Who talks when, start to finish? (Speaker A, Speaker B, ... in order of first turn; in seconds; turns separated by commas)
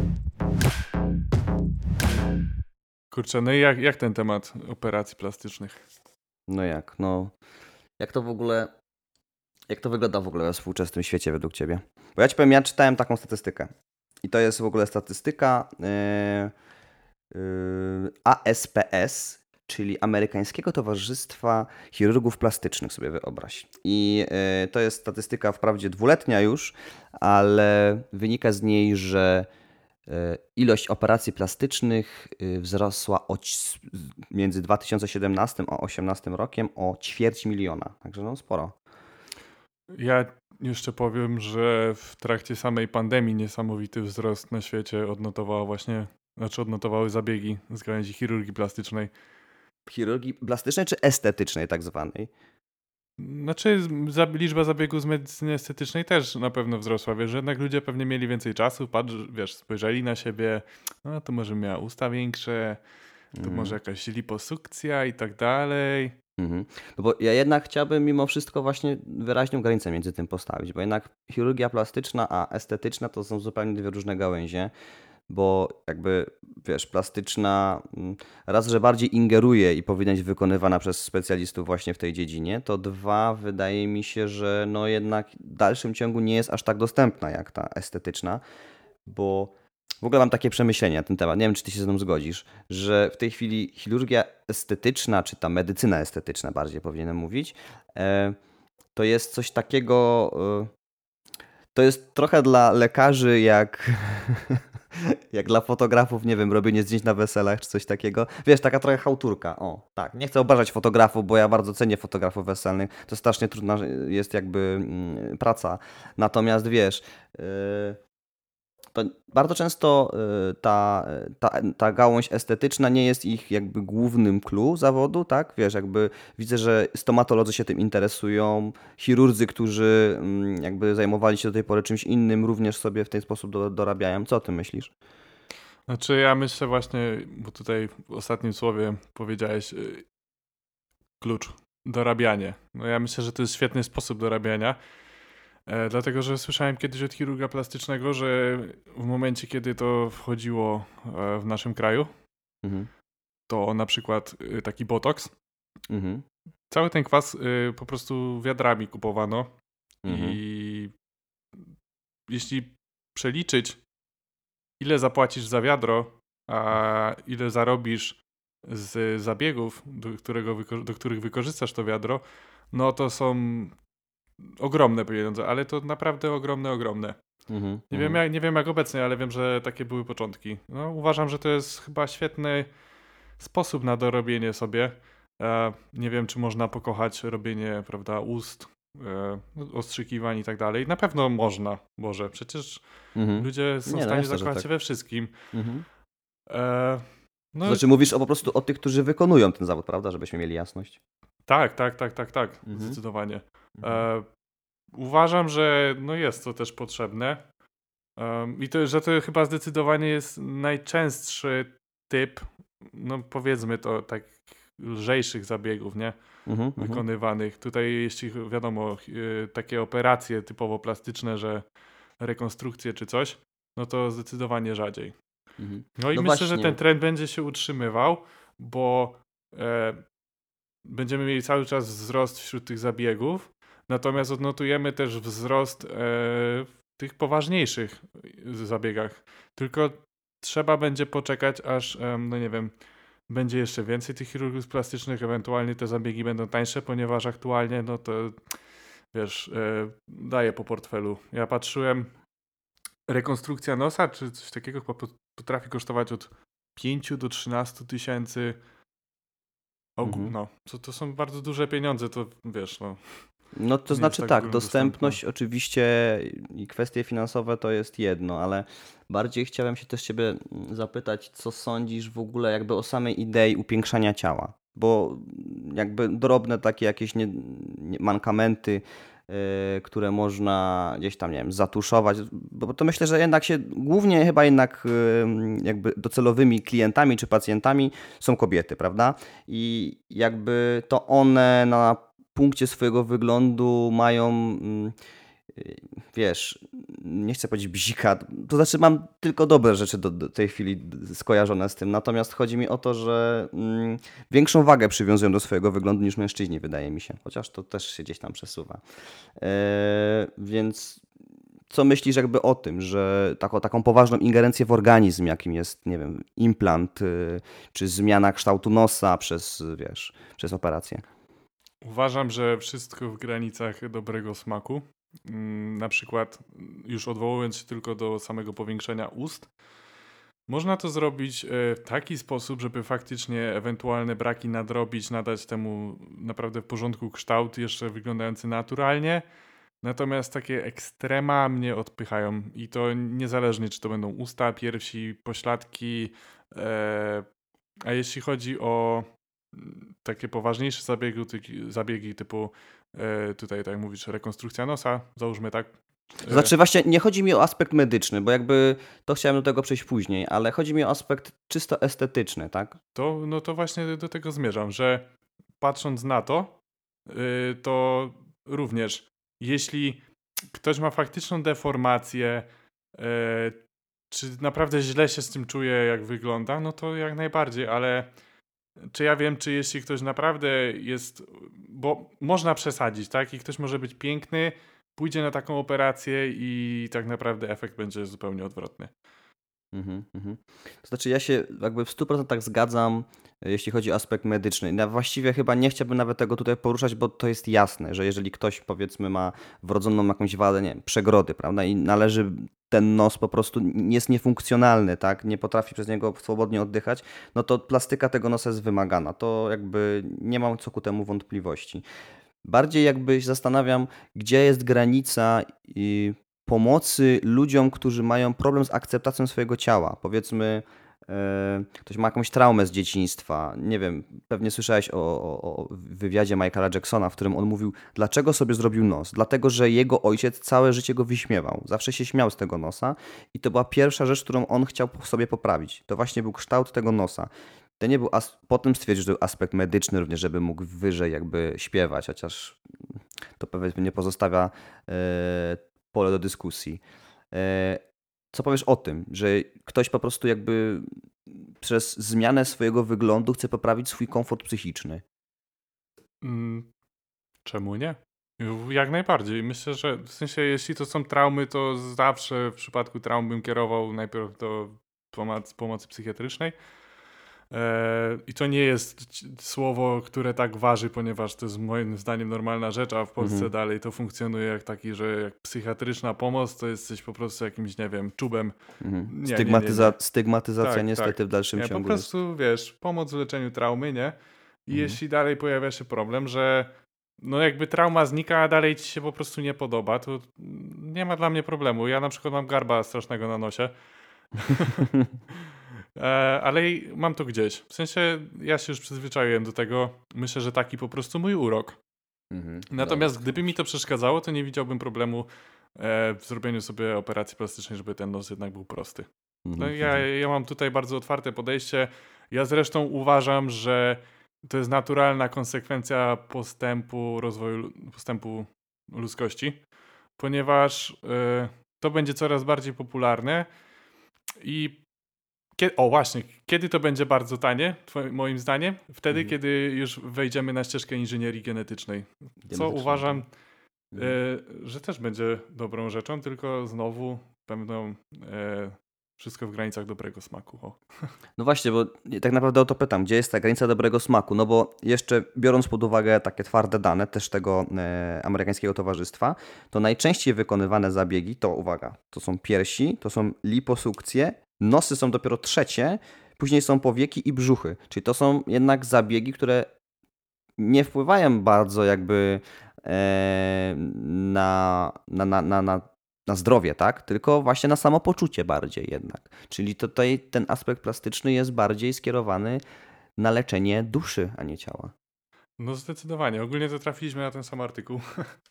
Speaker A: 3.1-5.8, Speaker B: 6.5-7.3, Speaker B: 8.0-8.7, Speaker B: 9.7-13.7, Speaker B: 14.2-16.5, Speaker B: 17.3-29.5, Speaker B: 30.1-38.7, Speaker A: 39.9-49.1, Speaker B: 49.9-52.3, Speaker A: 53.2-62.8, Speaker B: 63.3-63.8, Speaker A: 63.4-66.1, Speaker B: 66.4-74.7, Speaker B: 75.3-88.4, Speaker B: 89.0-98.4, Speaker B: 98.9-100.7, Speaker B: 101.7-104.6, Speaker B: 105.3-118.0, Speaker B: 118.9-134.9, Speaker A: 135.9-140.0, Speaker A: 141.2-144.8, Speaker A: 145.7-152.1, Speaker B: 152.6-152.9, Speaker A: 153.5-155.3, Speaker B: 155.9-156.2, Speaker A: 156.7-159.5, Speaker B: 160.0-160.4, Speaker A: 160.1-160.9, Speaker A: 162.3-163.8, Speaker A: 164.8-173.8, Speaker A: 174.6-177.2, Speaker B: 177.5-178.2, Speaker A: 177.9-182.7, Speaker A: 183.4-192.8, Speaker B: 193.1-194.7, Speaker A: 193.4-195.3, Speaker B: 195.5-195.8, Speaker A: 196.5-197.8, Speaker B: 197.6-201.0, Speaker A: 201.5-204.2, Speaker B: 202.7-203.0, Speaker B: 203.8-204.1, Speaker A: 204.9-207.4, Speaker A: 208.2-216.2, Speaker B: 216.4-217.0, Speaker A: 216.8-221.6, Speaker A: 222.2-225.1, Speaker B: 225.6-226.8, Speaker A: 226.0-230.0, Speaker A: 230.8-242.7, Speaker A: 243.3-248.4, Speaker A: 249.1-252.1, Speaker A: 253.1-258.6, Speaker A: 260.0-263.0, Speaker B: 260.0-260.3, Speaker B: 263.5-294.9, Speaker A: 263.9-265.2, Speaker B: 295.5-308.8, Speaker B: 309.4-311.0, Speaker B: 311.7-321.0, Speaker A: 321.8-329.5, Speaker A: 330.5-339.2, Speaker A: 339.8-347.2, Speaker A: 347.9-356.5, Speaker B: 356.3-362.8, Speaker A: 362.9-365.1, Speaker A: 365.6-366.6, Speaker A: 367.1-373.6, Speaker A: 374.1-378.1, Speaker A: 378.9-388.9, Speaker B: 389.7-411.8, Speaker B: 412.4-442.6, Speaker B: 443.4-447.8, Speaker B: 448.3-455.0, Speaker A: 456.2-456.7, Speaker A: 457.4-466.5, Speaker A: 467.5-478.5, Speaker B: 473.2-473.5, Speaker B: 478.8-482.1, Speaker A: 479.1-479.9, Speaker A: 480.6-484.1, Speaker A: 484.7-493.7, Speaker B: 484.7-485.0, Speaker A: 494.3-501.8, Speaker B: 502.3-503.3, Speaker A: 502.7-519.6, Speaker B: 509.4-510.0, Speaker A: 520.2-523.5, Speaker A: 524.4-524.8, Speaker A: 525.6-533.3, Speaker B: 532.5-533.2, Speaker A: 533.9-541.1, Speaker B: 541.4-559.7, Speaker B: 560.6-572.6, Speaker B: 573.2-574.9, Speaker A: 575.6-578.4